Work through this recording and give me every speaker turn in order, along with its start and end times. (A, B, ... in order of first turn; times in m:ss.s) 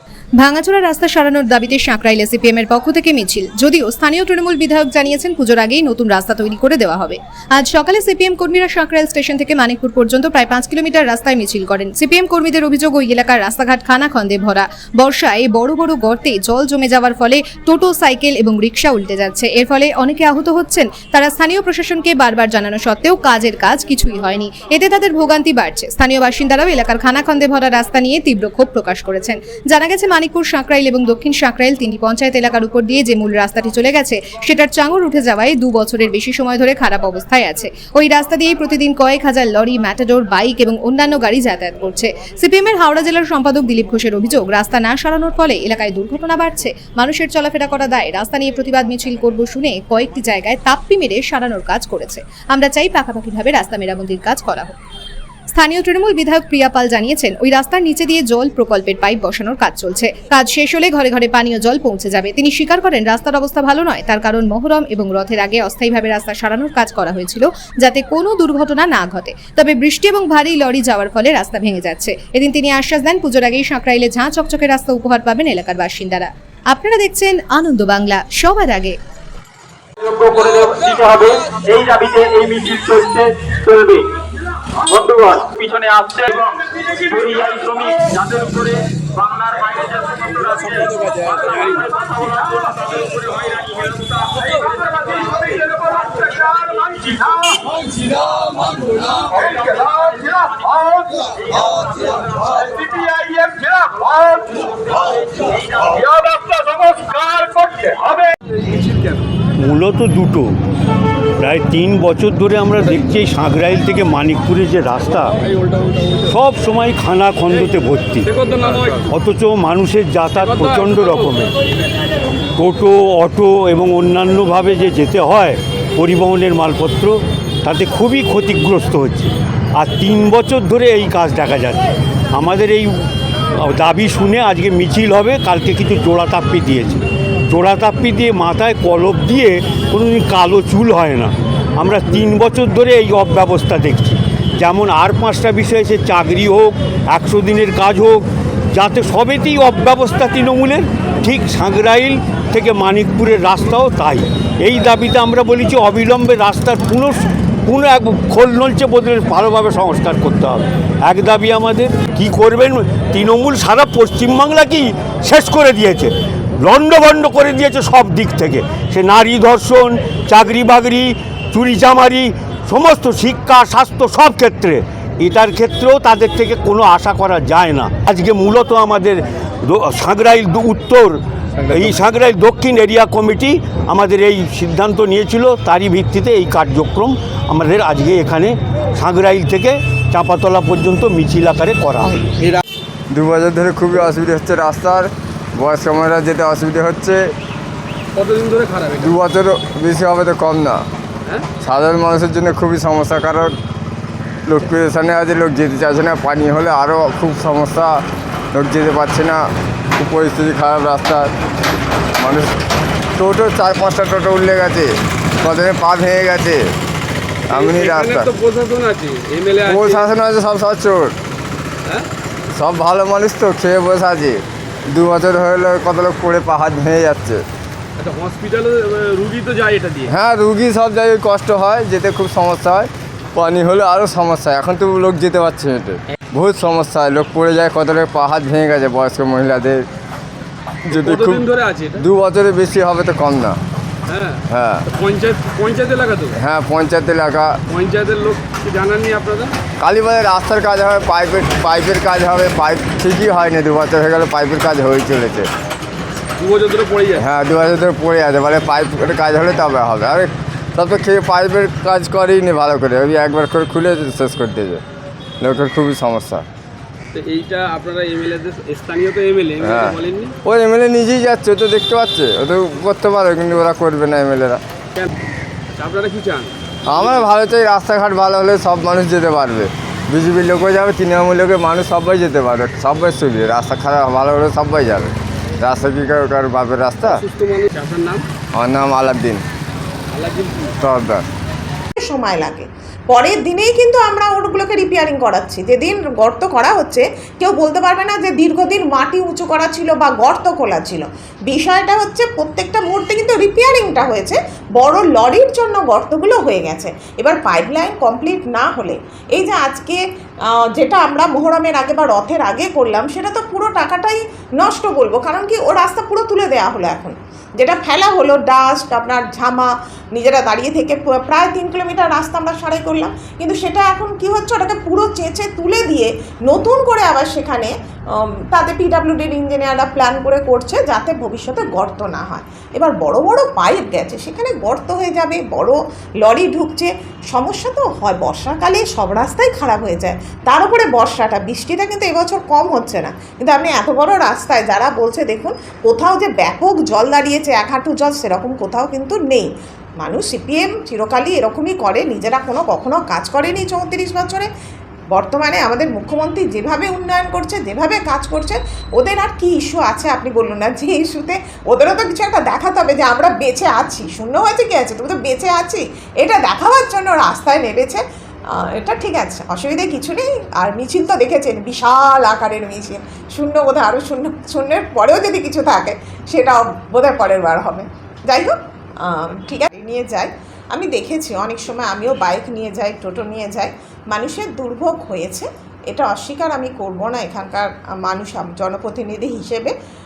0:00.4-0:54.8 A
0:55.5-1:19.0 A
1:20.0-1:24.0 B
1:24.9-1:37.2 B
1:36.3-1:37.4 C
1:39.0-1:41.2 C
1:39.4-1:40.6 B
1:41.6-1:43.2 B
1:43.5-1:44.5 C
1:45.5-1:45.9 B
1:45.9-1:47.5 D
1:46.4-1:46.7 C
1:47.7-1:49.2 C
1:49.6-1:50.5 D
1:51.4-1:55.4 D
1:55.3-1:56.4 C
1:56.3-1:58.3 D
1:58.3-1:59.0 C
1:59.0-2:01.5 D
2:00.4-2:01.2 C
2:02.6-3:12.4 D
3:13.1-3:17.3 E
3:18.1-3:19.1 C
3:19.0-3:20.8 E
3:21.6-3:23.6 E
3:24.5-3:28.0 E
3:28.5-3:31.3 E
3:32.2-3:32.6 E
3:33.2-3:36.7 E
3:37.5-3:38.3 E
3:37.5-3:40.0 C
3:39.7-3:41.2 E
3:42.5-3:47.4 E
3:48.0-3:50.1 C
3:50.1-3:59.8 E
4:00.9-4:02.0 C
4:00.9-4:01.4 E
4:02.0-4:03.6 E
4:04.1-4:06.3 C
4:04.5-4:04.8 E
4:06.4-4:07.6 E
4:07.7-4:09.5 C
4:09.8-4:15.5 E
4:16.4-4:17.2 C
4:17.2-4:24.8 E
4:25.4-4:26.4 E
4:27.1-4:30.3 C
4:29.6-4:34.6 E
4:35.7-4:36.5 C
4:36.8-4:47.2 E
4:47.0-4:48.2 C
4:48.5-4:49.4 E
4:50.1-4:50.7 C
4:50.8-4:51.2 E
4:52.0-5:54.5 F
5:55.1-6:29.7 F